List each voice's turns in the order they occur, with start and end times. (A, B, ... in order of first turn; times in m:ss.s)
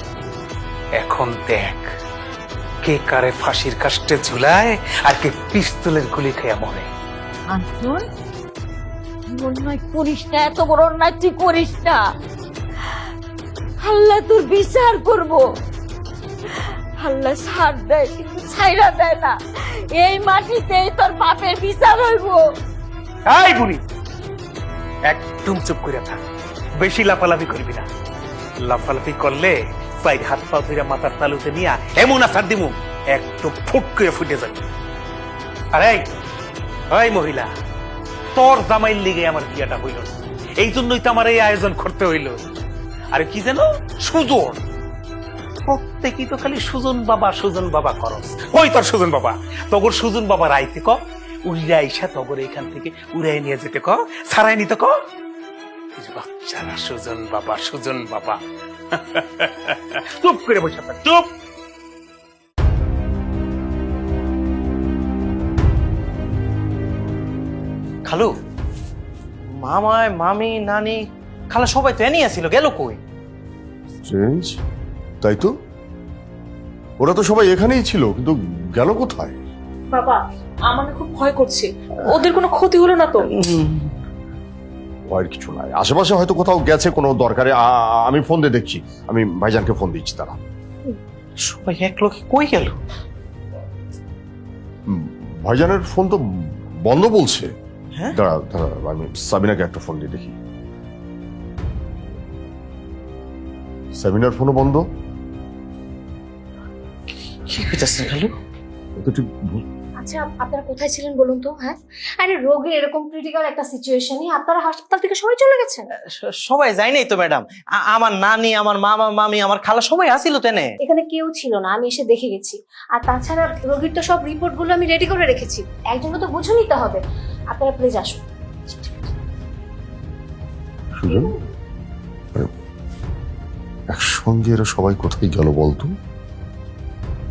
0:01.0-0:01.9 A
0:02.8-0:06.9 A
0:07.5-0:08.0 B
0:09.3-0:12.0 B
0:13.8-0:15.5 B
0:16.6-0:19.4 B
0:19.9-0:22.4 B
0:23.3-0:23.8 A
0:25.1-0:26.2 A
0:26.8-0:27.9 A
0:28.6-0:34.6 A
0:35.7-0:36.1 A
0:36.9-0:37.5 A
0:38.4-0:42.4 A
0:43.1-0:44.6 A
0:45.7-0:54.9 A
0:56.0-0:58.4 A
0:58.9-1:01.3 A
1:08.1-1:08.4 C
1:09.6-1:11.0 C
1:11.5-1:13.0 C
1:14.0-1:14.6 D
1:15.2-1:15.5 D
1:17.0-1:19.4 D
1:19.9-1:23.3 E
1:23.4-1:23.9 C
1:25.1-1:30.4 D
1:31.4-1:32.8 C
1:34.9-1:36.2 D
1:36.8-1:37.5 D
1:38.1-1:40.4 D
1:44.0-1:44.8 D
1:47.4-1:48.3 C
1:49.0-1:49.6 D
1:50.0-1:55.9 F
1:56.1-2:00.7 C
2:00.8-2:07.0 F
2:07.5-2:08.2 F
2:11.0-2:11.3 D
2:11.1-2:11.3 F
2:13.9-2:15.9 D